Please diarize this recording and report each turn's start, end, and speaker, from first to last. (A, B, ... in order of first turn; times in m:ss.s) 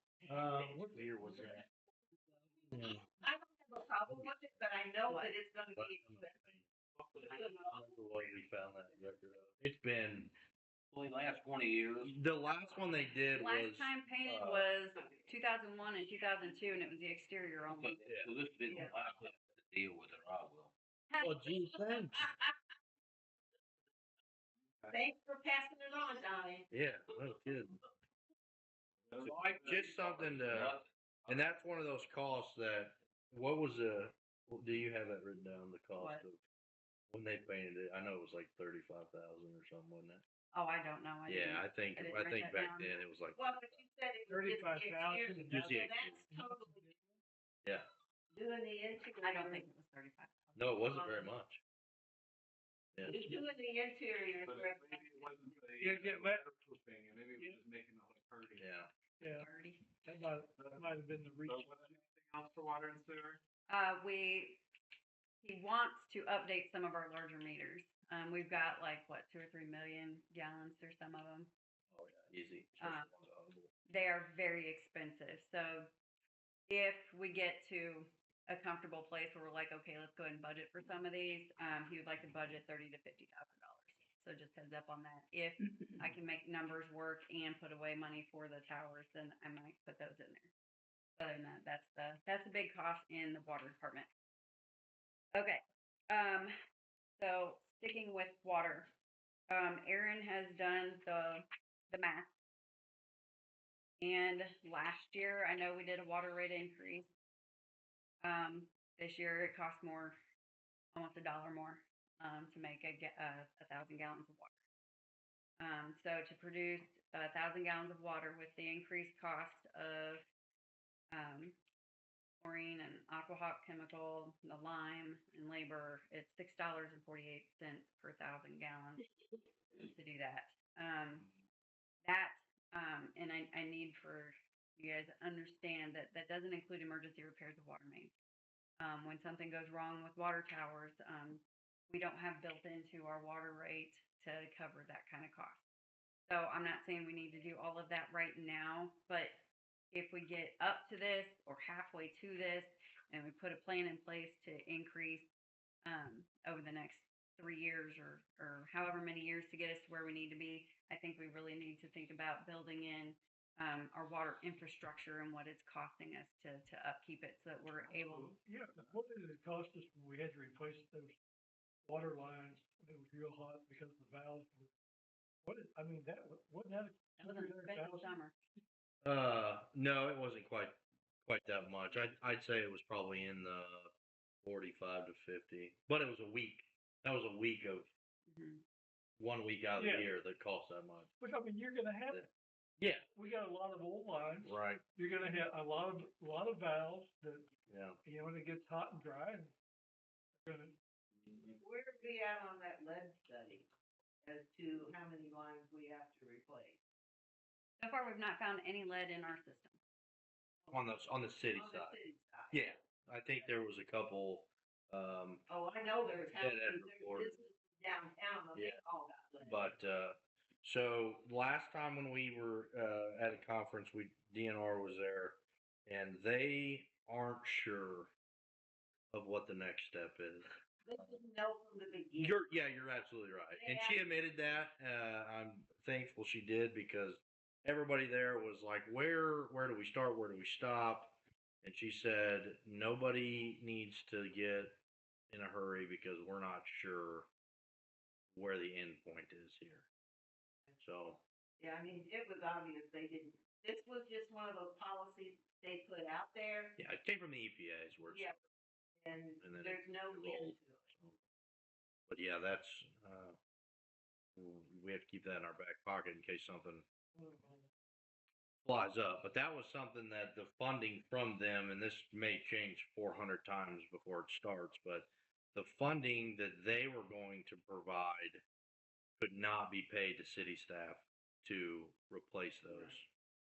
0:00.3-0:01.5 A
0:00.9-0:01.6 B
0:02.7-0:03.0 B
0:03.2-0:06.3 C
0:05.7-0:06.6 B
0:07.2-0:07.7 C
0:07.7-0:10.3 B
0:10.9-0:12.1 D
0:12.0-0:14.7 B
0:13.3-0:18.0 E
0:17.7-0:20.7 D
0:18.0-0:18.3 B
0:18.7-0:19.0 C
0:21.1-0:21.7 E
0:21.2-0:22.3 B
0:24.9-0:26.7 C
0:26.7-0:27.8 B
0:29.1-0:30.0 F
0:29.2-0:36.4 B
0:29.3-0:30.8 D
0:36.0-0:36.2 E
0:37.1-0:40.2 B
0:40.5-0:42.9 E
0:41.2-0:43.8 B
0:43.3-0:46.8 C
0:44.3-0:45.7 A
0:45.5-0:46.2 B
0:46.3-0:47.2 A
0:48.3-0:49.6 C
0:49.2-0:50.7 E
0:50.6-0:51.6 B
0:50.9-0:51.3 C
0:52.9-0:53.4 B
0:53.0-0:55.5 C
0:54.4-0:58.6 F
0:55.8-0:56.4 A
0:58.6-0:58.9 B
0:59.2-0:59.5 A
0:59.3-0:59.8 E
1:00.0-1:01.8 A
1:00.5-1:03.4 F
1:03.7-1:04.6 E
1:05.4-1:11.5 E
1:11.9-1:13.7 B
1:12.8-1:13.1 E
1:13.9-1:15.9 E
1:16.7-1:30.5 E
1:31.2-1:34.1 E
1:35.3-1:36.5 E
1:37.2-1:38.9 E
1:39.5-1:42.3 E
1:44.0-1:47.1 E
1:48.2-1:50.2 E
1:50.9-1:54.5 E
1:55.6-2:00.2 E
2:01.1-2:01.6 E
2:02.4-2:09.0 E
2:09.7-2:11.3 E
2:12.0-2:18.1 E
2:18.8-2:25.6 E
2:26.3-2:29.4 E
2:29.9-2:35.3 E
2:35.8-2:48.4 E
2:48.0-2:51.2 A
2:51.8-2:54.7 A
2:55.4-2:58.2 A
2:57.2-2:58.3 E
2:59.0-3:03.9 B
3:04.4-3:07.9 B
3:08.3-3:08.6 E
3:09.2-3:11.1 B
3:09.8-3:10.1 A
3:11.2-3:12.2 A
3:12.8-3:13.0 B
3:13.1-3:17.5 A
3:14.4-3:14.8 B
3:17.7-3:18.0 B
3:18.0-3:19.5 A
3:20.4-3:20.8 A
3:21.6-3:23.7 C
3:24.2-3:26.8 C
3:27.8-3:29.8 E
3:30.7-3:32.0 B
3:31.5-3:32.6 C
3:32.5-3:35.4 B
3:35.5-3:39.7 C
3:36.3-3:37.4 B
3:38.5-3:38.8 B
3:39.4-3:48.1 B
3:49.1-3:50.5 B
3:50.8-3:52.4 C
3:52.2-4:04.8 B
3:53.5-3:54.1 C
4:05.3-4:07.3 B
4:08.3-4:09.9 B
4:10.8-4:11.2 B
4:11.6-4:16.8 C
4:16.8-4:18.3 B
4:18.1-4:18.3 C
4:19.0-4:20.9 C
4:19.4-4:21.2 B
4:22.1-4:23.4 B
4:24.4-4:26.8 B
4:27.2-4:27.6 C
4:28.6-4:38.4 B
4:39.2-4:43.0 B
4:42.6-4:43.0 C